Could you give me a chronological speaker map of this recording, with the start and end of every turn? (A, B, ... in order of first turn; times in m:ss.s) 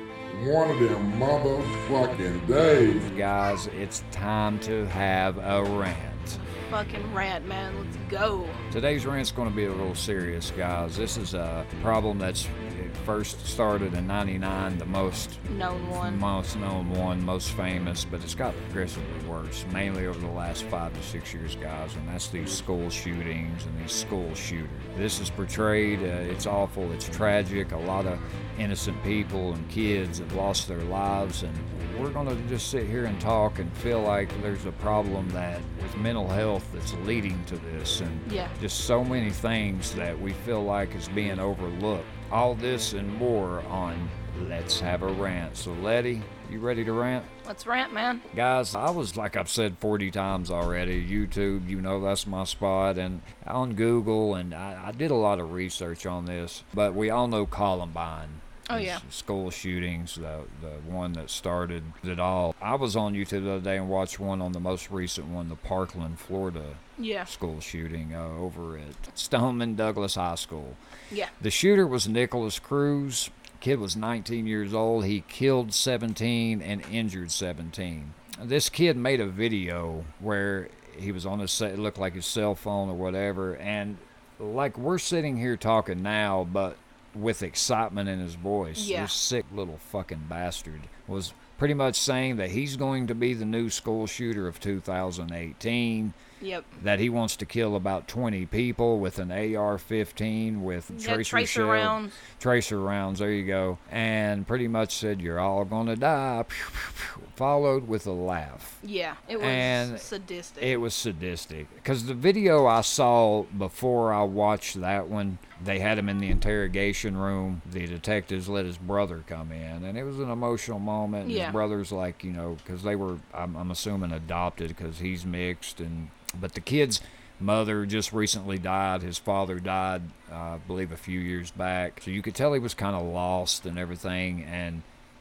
0:00.3-0:03.1 A
0:02.8-0:06.4 B
0:06.5-0:08.6 C
0:08.7-0:15.4 B
0:15.5-0:16.2 C
0:15.9-0:47.3 B
0:38.2-0:38.5 C
0:47.4-0:48.2 C
0:48.3-1:10.8 B
0:58.7-0:59.0 C
1:07.0-1:07.3 C
1:11.4-1:36.2 B
1:28.7-1:29.1 C
1:36.4-1:36.7 C
1:36.8-1:48.8 B
1:40.9-1:42.2 C
1:48.8-1:50.7 C
1:49.4-1:50.0 B
1:50.6-2:14.8 B
2:01.2-2:01.6 C